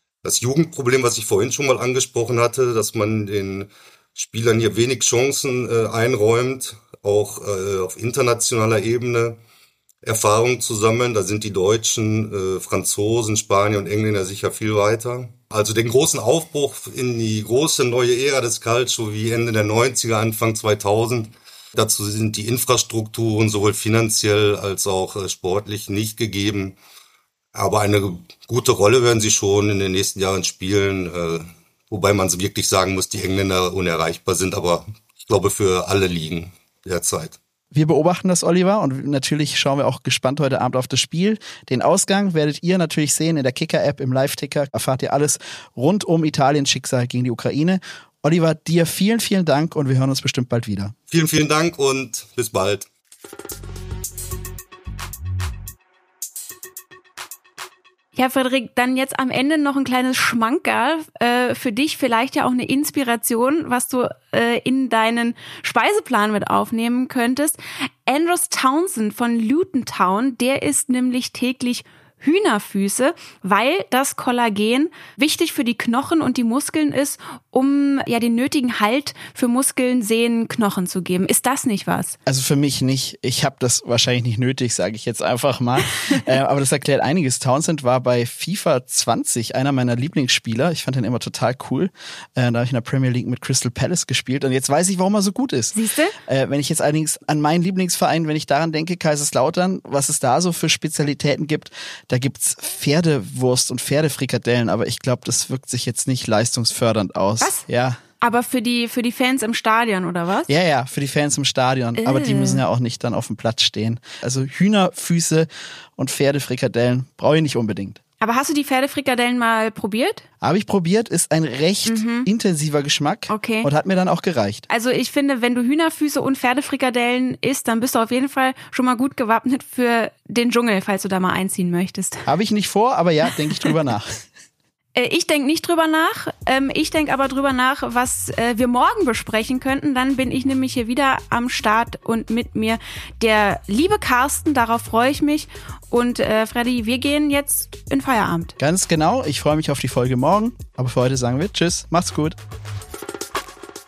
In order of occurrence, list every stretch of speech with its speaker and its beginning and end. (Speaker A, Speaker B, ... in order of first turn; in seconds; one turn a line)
Speaker A: 0.2-9.4
Speaker A: 10.0-26.8
Speaker A: 27.5-37.4
Speaker B: 37.7-50.9
Speaker A: 51.1-52.9
Speaker C: 58.1-82.2
Speaker B: 82.3-108.0
Speaker C: 95.7-96.2
Speaker C: 108.2-110.5
Speaker B: 110.5-118.0
Speaker C: 112.0-112.6
Speaker C: 118.2-120.2
Speaker B: 120.4-124.7
Speaker C: 121.9-122.3
Speaker C: 123.3-123.7
Speaker C: 124.7-132.3
Speaker B: 132.3-134.2
Speaker C: 134.9-148.6
Speaker B: 148.6-152.4